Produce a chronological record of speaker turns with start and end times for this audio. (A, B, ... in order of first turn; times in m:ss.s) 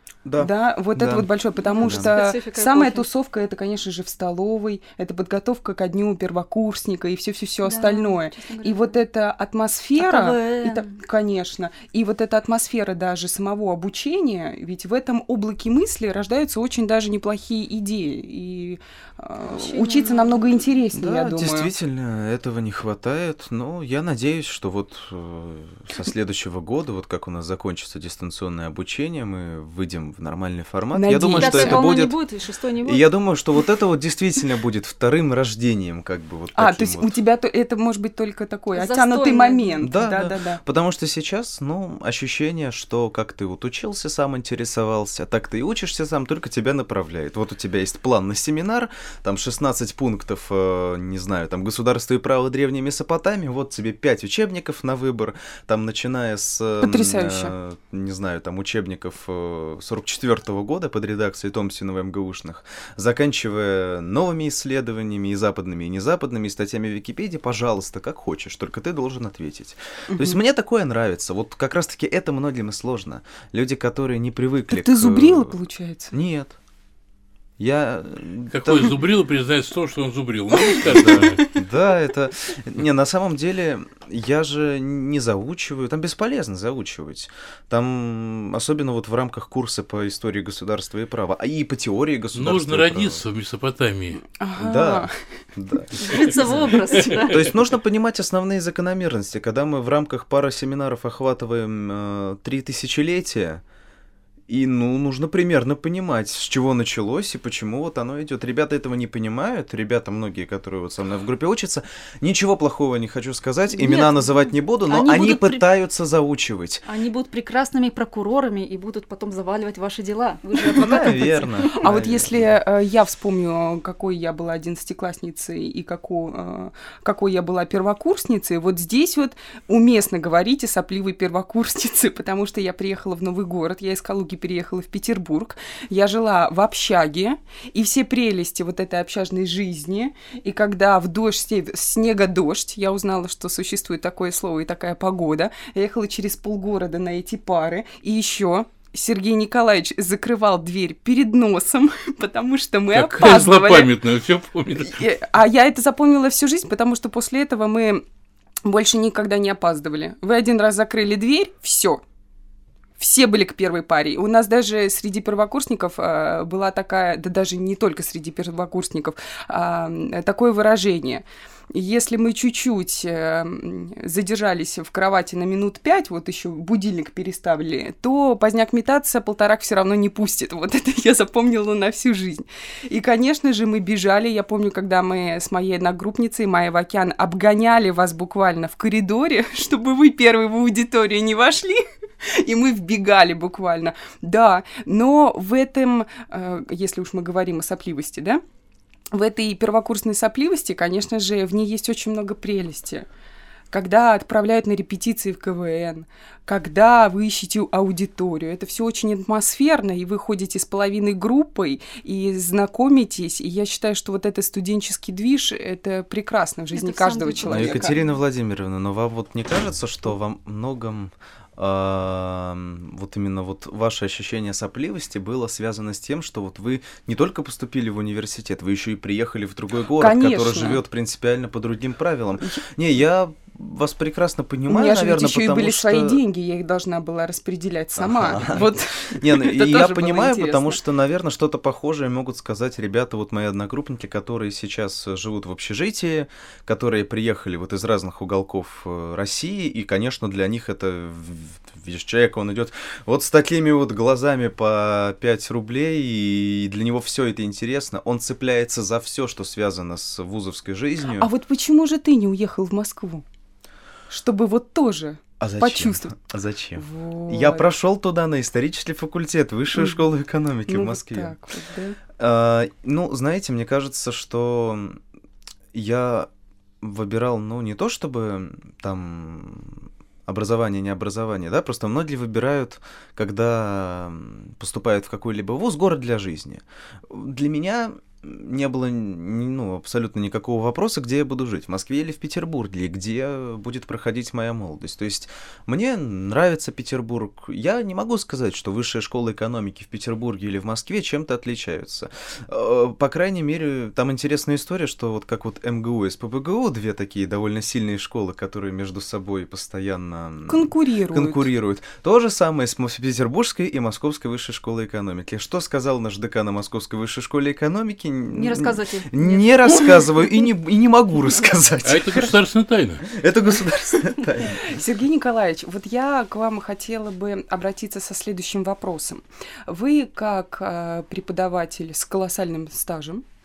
0:00.2-0:01.3 A
0:00.4-0:21.7 B
0:01.6-0:03.0 C
0:01.8-0:02.1 A
0:07.6-0:09.0 C
0:10.0-0:11.0 C
0:19.4-0:20.4 C
0:20.9-0:32.2 A
0:30.9-0:31.9 B
0:31.4-0:33.0 C
0:32.8-0:37.2 A
0:36.5-0:40.6 B
0:38.7-0:39.9 C
0:39.8-1:15.6 A
0:56.8-0:57.5 B
1:10.1-1:10.4 B
1:14.7-1:16.1 B
1:16.1-1:16.6 A
1:17.6-1:19.0 A
1:18.5-1:21.4 D
1:20.8-1:21.5 B
1:20.8-1:33.2 A
1:32.3-1:34.2 D
1:34.4-1:35.2 B
1:34.6-1:43.6 A
1:36.0-1:37.5 C
1:44.5-1:56.8 A
1:53.7-1:55.6 C
1:56.8-2:01.7 C
2:00.6-2:02.5 A
2:01.8-2:33.9 B
2:32.9-2:35.0 D
2:34.8-2:38.0 B
2:38.6-2:42.0 B
2:43.0-3:18.4 B
3:19.1-3:23.1 B
3:23.7-3:38.0 B
3:36.7-3:38.2 C
3:37.5-3:56.2 A
3:50.0-3:50.8 B
3:54.7-4:00.8 B
3:58.0-4:21.3 A
4:21.2-4:23.2 B
4:24.1-4:26.1 B
4:25.4-4:31.4 A
4:26.8-4:27.7 B
4:29.7-4:30.0 B
4:30.7-4:32.0 B
4:32.2-4:35.0 A
4:35.7-4:36.3 A
4:36.8-5:22.4 A
5:10.5-5:11.5 B
5:18.3-5:20.0 C
5:21.8-5:23.1 D
5:23.0-5:24.7 A
5:24.4-5:33.3 B